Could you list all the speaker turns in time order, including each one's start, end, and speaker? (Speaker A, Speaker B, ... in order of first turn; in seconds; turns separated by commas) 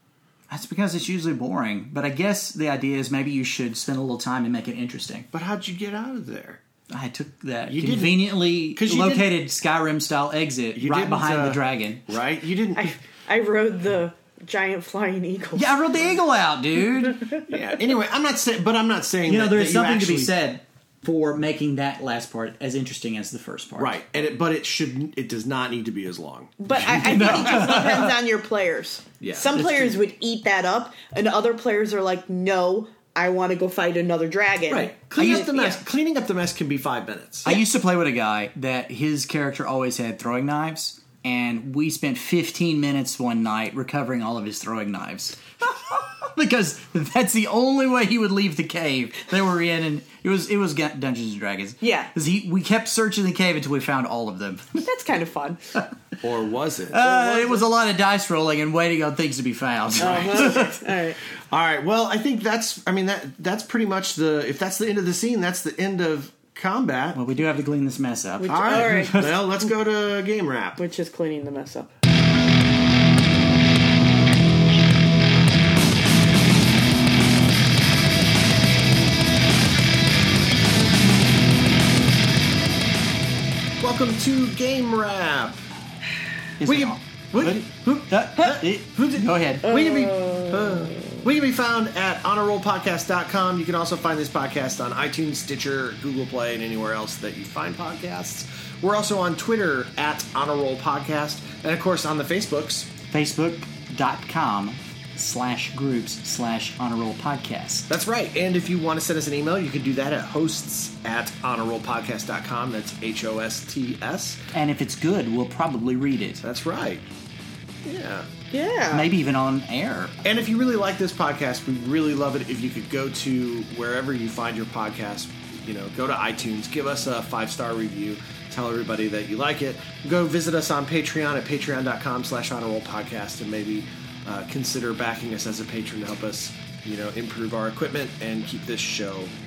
Speaker A: 0.5-5.3, Speaker B: 5.3-6.6, Speaker A: 6.9-12.1, Speaker B: 7.7-9.3, Speaker B: 10.8-12.9, Speaker C: 12.8-15.8, Speaker A: 15.6-17.4, Speaker B: 17.5-20.3, Speaker A: 19.3-24.0, Speaker B: 23.8-28.1, Speaker C: 26.6-35.8, Speaker A: 26.9-28.0, Speaker B: 29.2-29.6, Speaker A: 29.5-29.9, Speaker B: 34.7-37.6, Speaker A: 35.2-35.5, Speaker A: 37.5-54.9, Speaker C: 51.8-52.1, Speaker C: 54.8-55.6, Speaker B: 56.2-57.5, Speaker A: 56.9-60.8, Speaker C: 57.3-57.6, Speaker C: 60.0-61.2, Speaker B: 60.0-60.6, Speaker B: 61.5-67.2, Speaker A: 67.2-69.4, Speaker C: 68.4-69.3, Speaker B: 68.5-70.8, Speaker C: 70.8-71.9, Speaker B: 83.8-85.6, Speaker A: 86.6-89.7, Speaker B: 86.6-87.7, Speaker B: 88.4-102.9, Speaker C: 89.6-91.2, Speaker A: 103.1-107.9, Speaker B: 107.9-114.4, Speaker A: 114.5-116.4, Speaker B: 116.4-117.1, Speaker B: 117.8-118.3, Speaker C: 118.5-119.1, Speaker A: 118.9-120.2, Speaker B: 120.2-139.3